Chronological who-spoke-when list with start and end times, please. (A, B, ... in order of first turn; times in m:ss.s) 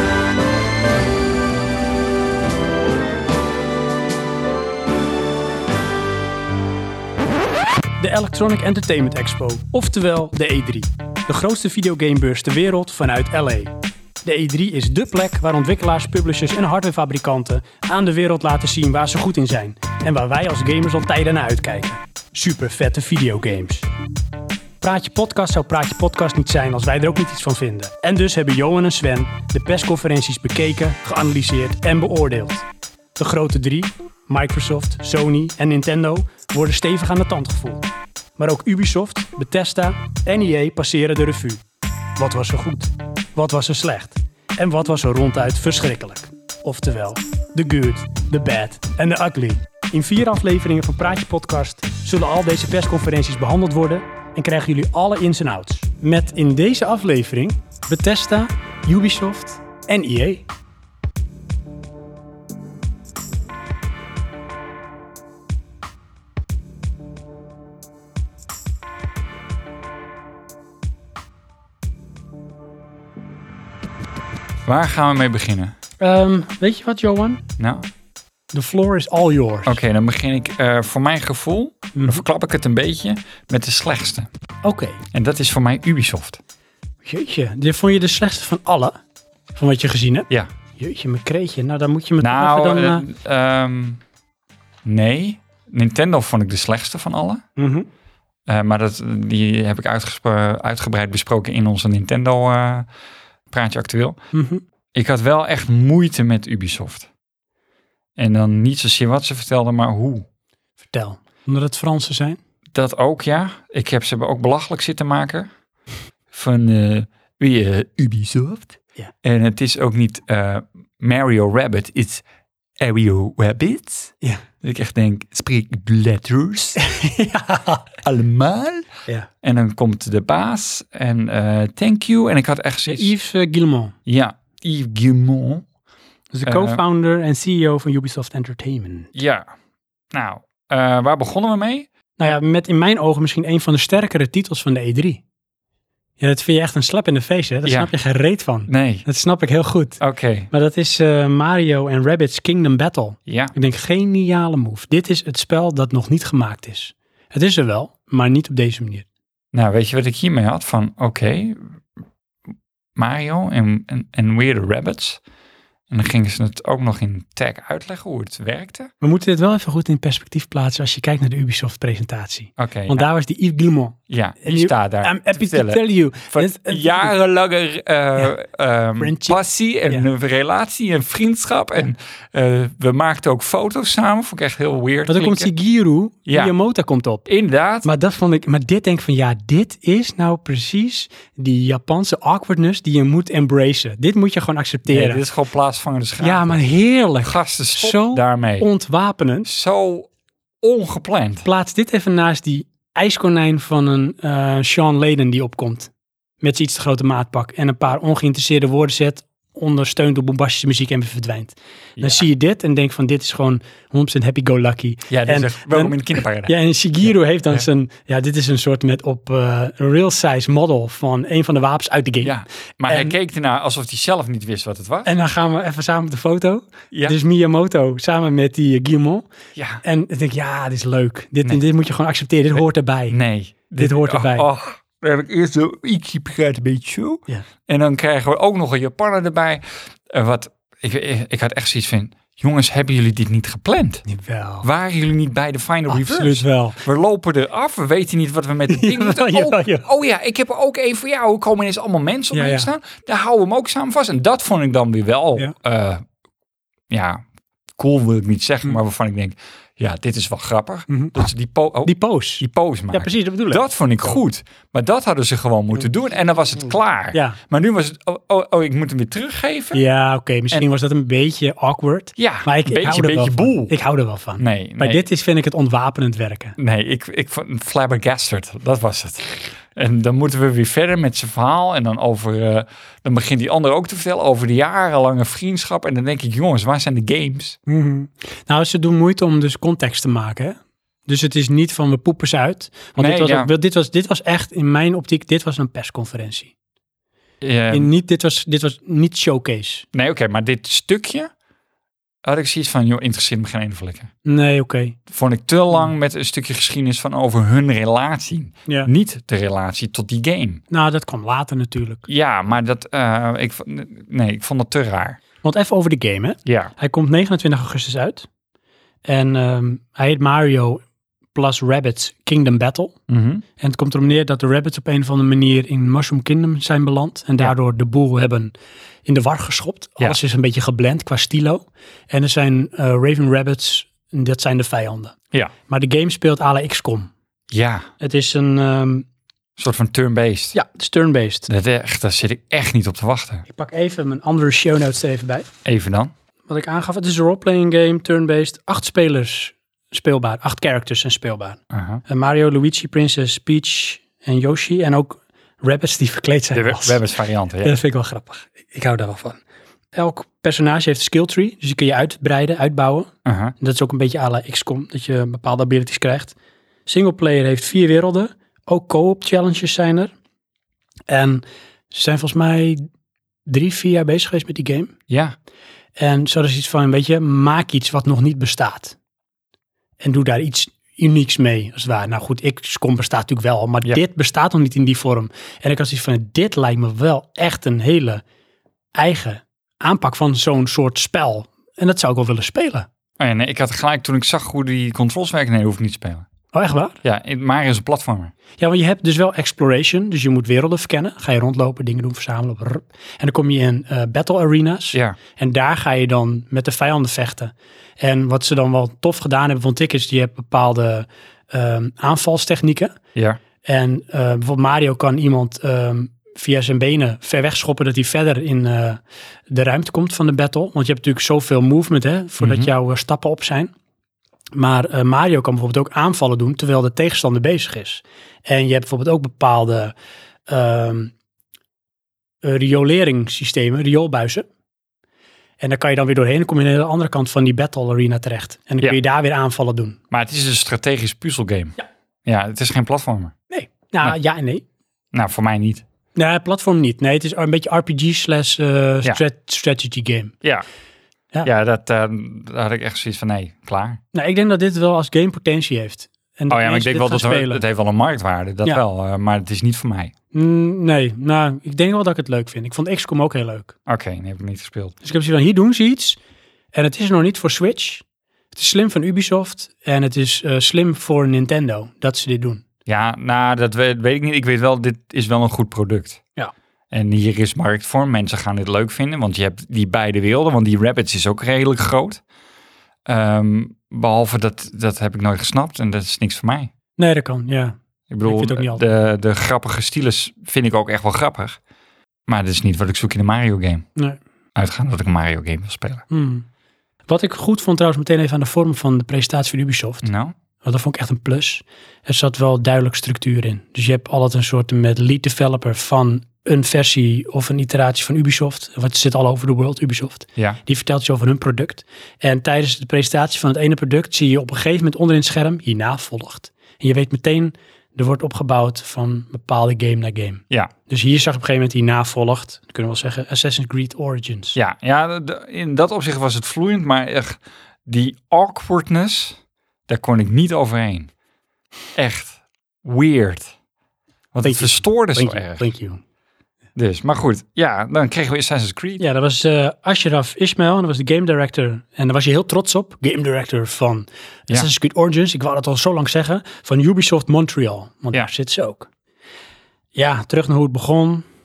0:08.0-0:23.9 A
0:24.8-0:32.7 A
0:33.2-0:37.9 A
0:38.4-0:41.6 A
0:42.2-1:00.5 A
1:14.7-1:15.8 B
1:16.0-1:17.4 A
1:17.6-1:17.9 B
1:18.5-1:19.8 A
1:19.7-1:24.3 B
1:22.0-1:22.2 A
1:24.6-1:25.0 A
1:25.1-1:26.4 B
1:27.0-1:29.0 A
1:29.6-1:33.0 A
1:32.2-1:34.0 B
1:34.8-1:37.4 B
1:37.6-1:37.9 A
1:38.5-1:42.9 B
1:43.5-1:44.2 B
1:44.3-1:44.6 A
1:45.0-1:47.1 B
1:48.2-1:50.3 B
1:50.8-1:52.4 A
1:52.7-1:55.5 B
1:56.3-2:02.2 B
2:02.8-2:04.1 B
2:04.6-2:06.8 B
2:06.8-2:07.8 A
2:08.0-2:08.9 B
2:09.4-2:13.1 B
2:12.9-2:14.0 A
2:14.1-2:15.7 B
2:16.3-2:19.1 A
2:16.4-2:16.8 B
2:19.2-2:19.5 B
2:20.1-2:21.9 B
2:22.2-2:25.2 A
2:26.2-2:30.0 A
2:27.6-2:27.9 B
2:28.7-2:29.0 B
2:30.0-2:30.5 B
2:30.5-2:39.1 A
2:33.3-2:33.5 B
2:39.5-2:41.7 B
2:43.0-2:45.2 B
2:45.9-2:48.9 B
2:49.0-2:57.1 A
2:52.6-2:53.1 B
2:54.1-3:05.5 B
2:59.0-3:00.1 A
3:05.1-3:07.3 A
3:06.3-3:06.5 B
3:07.3-3:07.9 B
3:07.8-3:15.2 A
3:14.9-3:16.6 B
3:16.2-3:19.5 A
3:17.2-3:18.7 B
3:19.5-3:20.1 B
3:20.6-3:21.5 B
3:21.4-3:25.9 A
3:26.4-3:42.4 A
3:32.0-3:32.3 B
3:35.1-3:36.6 B
3:42.2-3:45.1 B
3:42.9-3:43.1 A
3:45.0-3:49.3 A
3:49.6-3:49.8 B
3:49.8-3:53.2 A
3:52.6-4:04.0 B
3:53.8-3:54.5 A
4:04.1-4:04.7 A
4:04.6-4:16.0 B
4:05.9-4:06.8 A
4:08.7-4:09.9 A
4:12.3-4:12.7 A
4:16.9-4:17.2 B
4:17.8-4:29.8 B
4:20.9-4:21.2 A
4:21.8-4:23.6 A
4:27.1-4:27.4 A
4:29.7-4:36.6 A
4:32.2-4:33.7 B
4:34.4-4:35.0 B
4:36.6-4:47.6 B
4:47.7-4:56.5 A
4:53.0-4:53.5 B
4:57.4-4:57.9 B
4:57.7-4:59.9 A
4:59.9-5:01.3 B
5:02.2-5:04.1 B
5:04.2-5:05.0 A
5:05.1-5:10.6 B
5:10.7-5:12.1 A
5:12.1-5:15.2 B
5:15.4-5:18.3 A
5:16.5-5:16.7 B
5:19.1-5:20.8 A
5:21.4-5:23.0 A
5:23.1-5:23.4 B
5:23.6-5:28.5 A
5:29.1-5:35.2 A
5:35.7-5:37.1 A
5:37.5-5:37.9 B
5:38.0-5:39.1 A
5:39.6-5:40.6 B
5:40.5-5:41.5 A
5:41.5-5:43.4 B
5:43.5-5:45.5 A
5:45.6-5:46.1 B
5:46.5-5:57.0 A
5:51.7-5:52.0 B
5:56.5-5:57.8 B
5:57.6-5:59.4 A
5:59.9-6:06.4 A
6:03.2-6:03.5 B
6:06.9-6:10.1 A
6:11.1-6:12.8 A
6:13.5-6:15.0 A
6:15.1-6:15.4 B
6:16.0-6:19.0 A
6:20.0-6:28.2 A
6:29.0-6:32.9 A
6:33.2-6:36.3 B
6:36.5-6:37.0 A
6:37.0-6:38.3 B
6:38.6-6:53.0 A
6:44.9-6:45.2 B
6:53.6-7:03.7 A
7:02.4-7:02.7 B
7:04.5-7:10.0 A
7:10.5-7:11.1 A
7:12.4-7:14.5 A
7:15.6-7:20.0 A
7:20.1-7:21.8 B
7:22.3-7:23.3 B
7:23.5-7:24.6 A
7:25.1-7:25.8 B
7:26.2-7:30.3 A
7:31.4-7:34.0 B
7:34.1-7:37.6 A
7:36.5-7:40.1 B
7:40.3-7:43.7 A
7:43.9-7:45.0 B
7:45.0-7:46.2 A
7:46.7-7:52.6 A
7:52.9-7:56.2 B
7:56.9-8:02.2 B
8:03.1-8:06.7 B
8:07.0-8:08.8 A
8:08.1-8:11.6 B
8:12.3-8:13.9 B
8:14.6-8:16.0 B
8:16.1-8:16.5 A
8:17.1-8:20.1 A
8:20.0-8:20.4 B
8:20.6-8:44.6 A
8:44.6-8:51.1 B
8:52.0-8:53.5 B
8:54.3-8:55.6 B
8:54.4-8:56.0 A
8:56.8-8:59.0 B
8:59.0-9:08.9 A
9:10.0-9:11.2 A